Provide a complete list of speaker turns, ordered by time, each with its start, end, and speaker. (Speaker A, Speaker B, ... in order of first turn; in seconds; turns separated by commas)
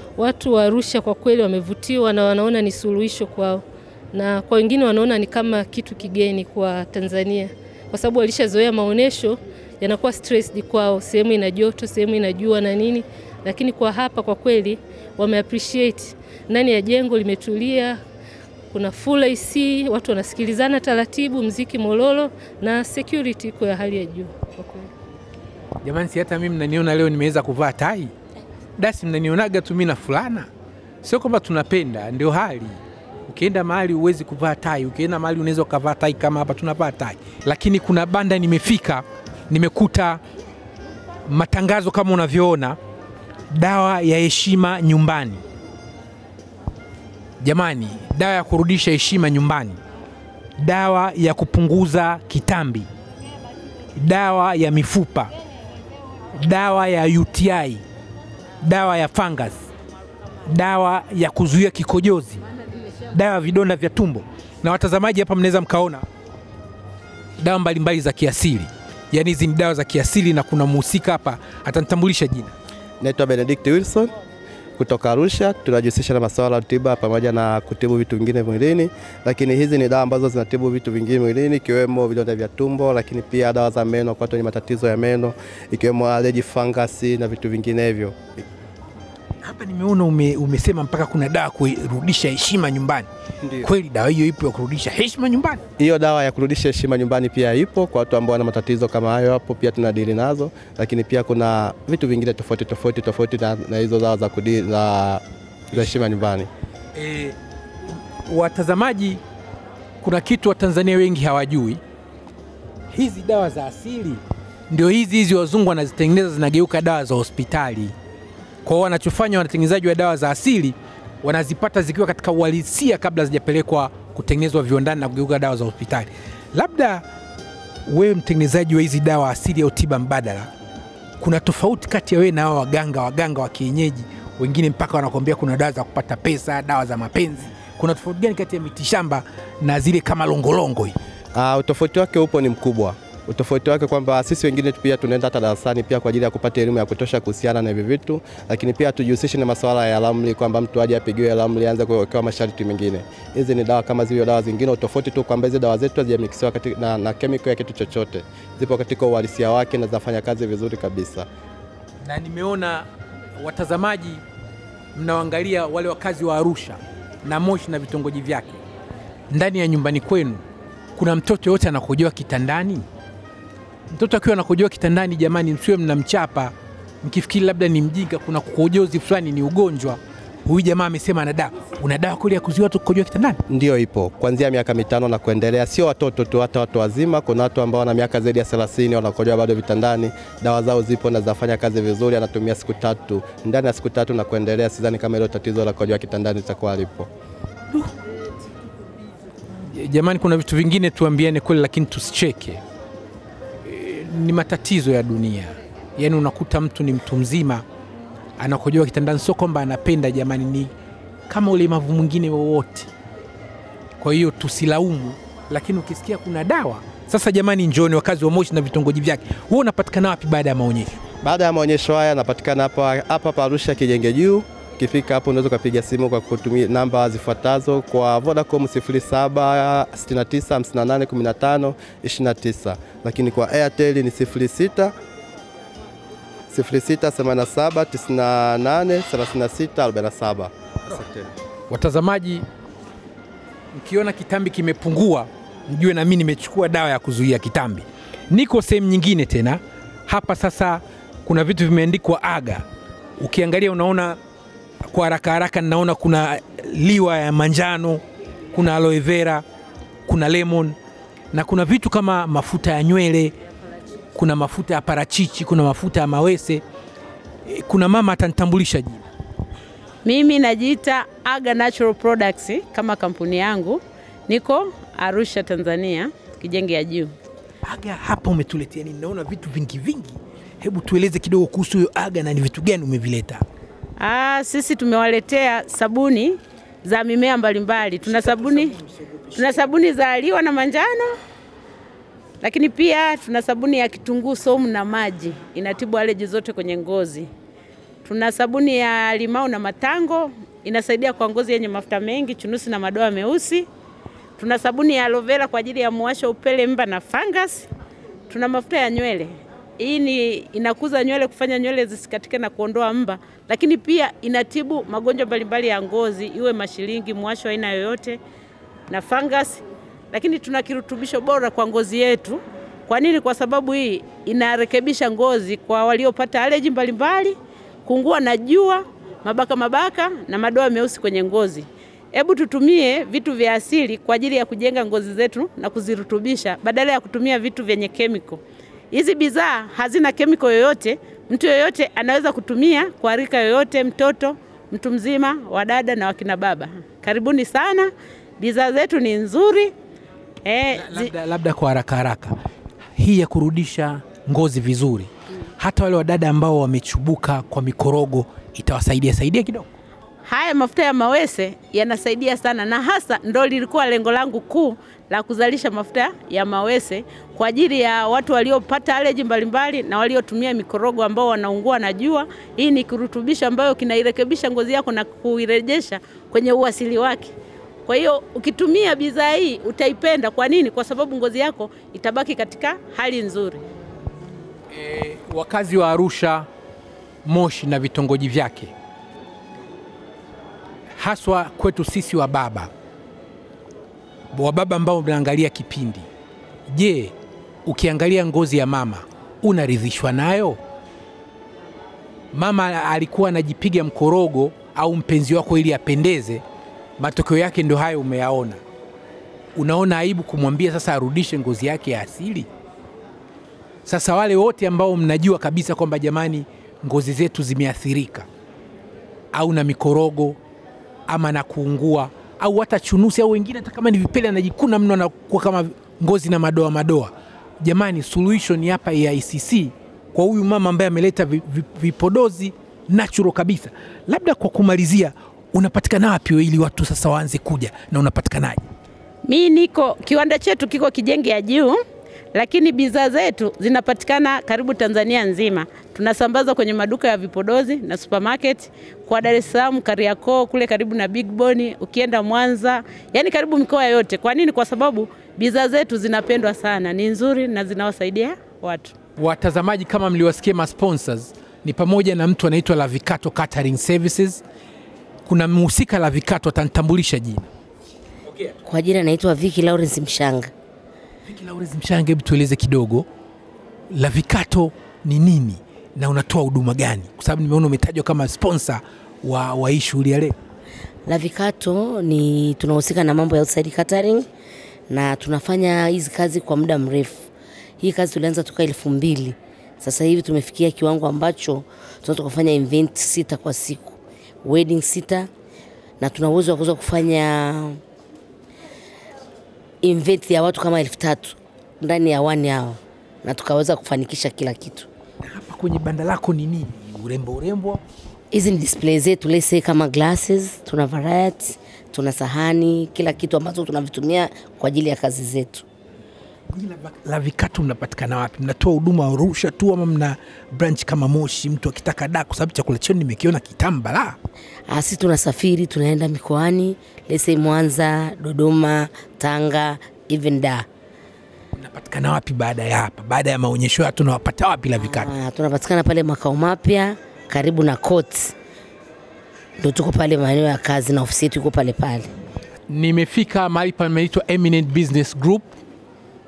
Speaker A: 0.2-18.0, Speaker A: 18.7-24.9, Speaker B: 25.8-28.1, Speaker B: 28.8-30.5, Speaker B: 31.0-40.2, Speaker B: 41.2-42.8, Speaker B: 43.5-45.4, Speaker B: 47.4-49.8, Speaker B: 50.6-52.9, Speaker B: 54.0-55.3, Speaker B: 56.3-57.8, Speaker B: 58.6-59.7, Speaker B: 60.5-62.4, Speaker B: 63.1-66.0, Speaker B: 67.4-72.5, Speaker C: 73.0-74.1, Speaker C: 74.8-88.4, Speaker B: 89.4-93.1, Speaker B: 93.6-95.6, Speaker C: 95.8-106.5, Speaker B: 106.9-107.4, Speaker B: 107.9-109.2, Speaker B: 110.0-111.8, Speaker B: 112.9-117.9, Speaker B: 118.6-127.0, Speaker B: 127.8-130.5, Speaker B: 131.2-141.0, Speaker C: 141.3-161.2, Speaker B: 162.0-164.2, Speaker B: 164.9-168.6, Speaker B: 169.3-170.4, Speaker B: 170.9-172.8, Speaker B: 173.9-183.4, Speaker C: 183.5-197.1, Speaker B: 199.6-202.6, Speaker B: 203.6-207.6, Speaker B: 208.4-210.7, Speaker B: 211.3-212.9, Speaker B: 214.0-221.0, Speaker C: 221.2-234.9, Speaker C: 236.5-241.1, Speaker B: 241.7-242.4, Speaker B: 243.7-252.6, Speaker B: 253.2-254.2, Speaker B: 254.8-259.4, Speaker B: 260.1-260.8, Speaker B: 261.3-263.3, Speaker B: 264.1-266.6, Speaker B: 267.4-269.1, Speaker D: 270.0-277.1, Speaker B: 277.6-283.4, Speaker D: 284.0-288.8, Speaker B: 288.0-289.7, Speaker D: 289.3-291.1, Speaker D: 292.4-297.3, Speaker D: 298.0-303.7, Speaker D: 304.4-307.7, Speaker D: 308.3-318.2, Speaker D: 318.9-338.4, Speaker D: 338.9-349.7, Speaker D: 350.4-351.1, Speaker B: 350.7-352.4, Speaker B: 352.9-359.7, Speaker D: 360.2-377.3, Speaker D: 377.9-383.6, Speaker B: 384.7-386.5, Speaker B: 387.2-388.7, Speaker B: 390.9-392.7, Speaker B: 394.3-396.1, Speaker B: 396.7-397.1, Speaker B: 397.6-400.6, Speaker B: 402.3-406.4, Speaker B: 407.0-408.6, Speaker B: 409.5-412.5, Speaker B: 413.8-418.3, Speaker B: 419.3-420.4, Speaker B: 421.1-438.6, Speaker D: 439.2-441.8, Speaker D: 442.3-458.9, Speaker B: 459.2-464.4, Speaker B: 465.2-467.5, Speaker B: 468.3-468.5, Speaker E: 468.6-470.5, Speaker B: 471.2-473.1, Speaker B: 473.9-480.3, Speaker E: 481.1-484.3, Speaker E: 484.9-495.3, Speaker E: 496.0-497.8, Speaker E: 499.8-504.9, Speaker B: 505.2-507.8, Speaker E: 508.3-515.6, Speaker B: 516.5-524.2, Speaker E: 524.7-530.6, Speaker B: 531.5-535.1, Speaker E: 534.8-538.3, Speaker E: 539.6-542.1, Speaker B: 542.7-545.5